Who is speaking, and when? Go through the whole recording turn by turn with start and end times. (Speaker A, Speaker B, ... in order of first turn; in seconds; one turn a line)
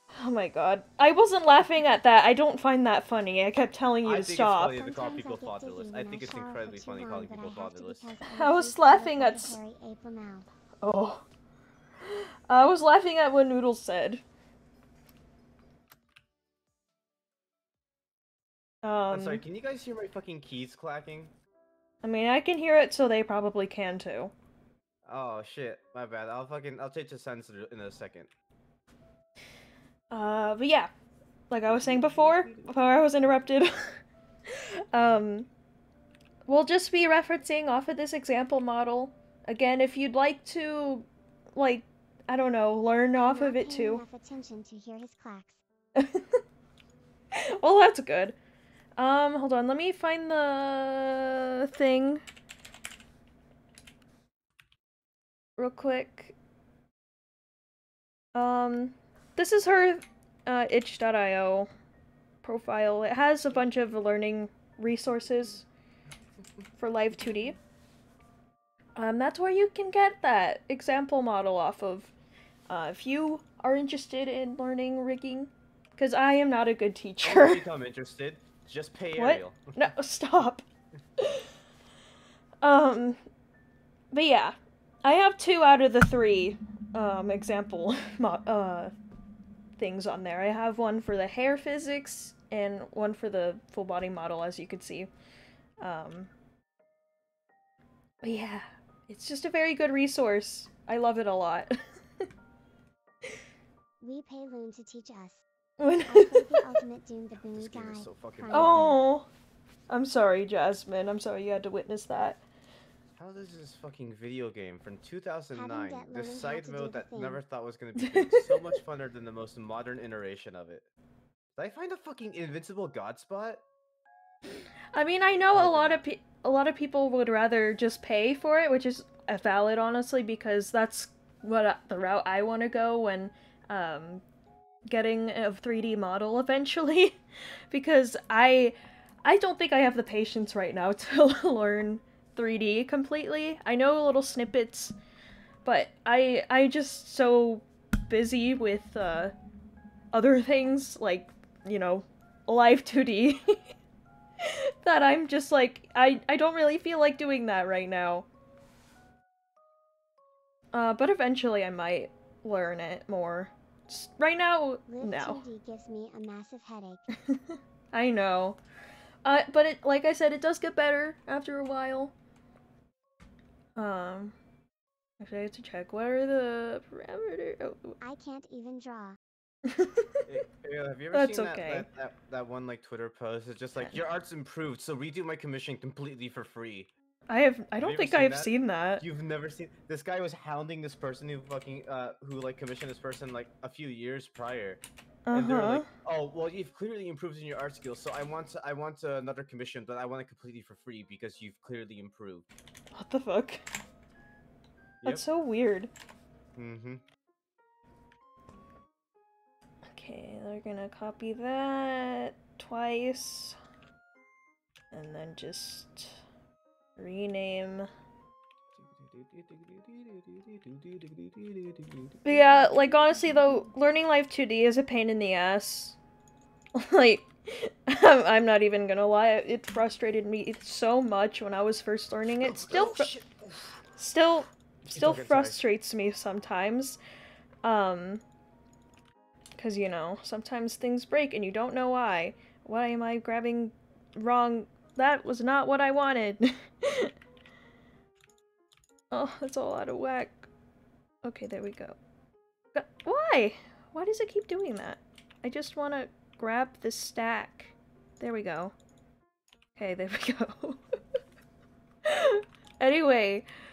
Speaker A: 0.1-4.8
Speaker B: 4.0-8.1
Speaker C: 4.7-10.5
Speaker A: 8.3-9.6
Speaker A: 10.8-11.3
Speaker A: 12.0-14.2
Speaker A: 18.8-19.4
Speaker B: 19.1-21.4
Speaker A: 22.0-24.3
Speaker B: 25.1-28.3
Speaker A: 30.1-30.9
Speaker A: 31.5-35.5
Speaker B: 31.7-32.6
Speaker A: 36.5-44.0
Speaker C: 43.2-45.6
Speaker A: 46.0-46.4
Speaker A: 47.3-48.4
Speaker A: 49.0-52.2
Speaker A: 55.6-56.4
Speaker A: 58.3-61.7
Speaker A: 62.4-65.7
Speaker A: 66.8-67.6
Speaker A: 69.0-72.1
Speaker A: 72.7-77.6
Speaker B: 77.2-79.9
Speaker A: 79.2-80.6
Speaker A: 81.2-81.5
Speaker A: 82.6-83.2
Speaker A: 84.1-88.9
Speaker A: 89.8-95.1
Speaker A: 95.8-96.3
Speaker A: 98.2-102.3
Speaker C: 104.0-105.4
Speaker A: 105.8-106.8
Speaker C: 106.0-109.0
Speaker B: 107.5-109.0
Speaker A: 108.5-109.3
Speaker A: 109.9-112.4
Speaker B: 113.2-120.9
Speaker C: 115.5-117.4
Speaker A: 118.0-118.8
Speaker B: 121.6-123.7
Speaker A: 124.9-134.2
Speaker B: 125.5-126.0
Speaker A: 134.9-137.2
Speaker A: 137.7-144.9
Speaker A: 145.7-149.3
Speaker A: 150.1-153.7
Speaker A: 154.4-158.3
Speaker A: 160.7-165.4
Speaker C: 164.9-167.0
Speaker A: 167.2-168.6
Speaker A: 169.2-172.1
Speaker A: 173.8-174.4
Speaker A: 175.2-178.0
Speaker C: 178.0-179.2
Speaker A: 179.7-180.2
Speaker B: 180.3-186.9
Speaker A: 181.1-181.9
Speaker A: 187.3-189.0
Speaker B: 187.8-194.8
Speaker A: 195.3-195.9
Speaker B: 195.3-202.5
Speaker A: 202.9-203.6
Speaker A: 205.1-205.9
Speaker B: 206.6-207.0
Speaker A: 209.9-213.6
Speaker A: 214.9-216.2
Speaker A: 217.0-217.9
Speaker B: 218.8-222.7
Speaker A: 222.2-226.0
Speaker A: 226.8-233.1
Speaker B: 232.4-233.8
Speaker A: 234.0-237.0
Speaker B: 234.9-235.6
Speaker A: 237.6-238.2
Speaker A: 239.6-247.1
Speaker A: 249.1-250.5
Speaker A: 251.2-252.0
Speaker A: 252.7-258.7
Speaker A: 259.8-260.8
Speaker A: 262.0-263.5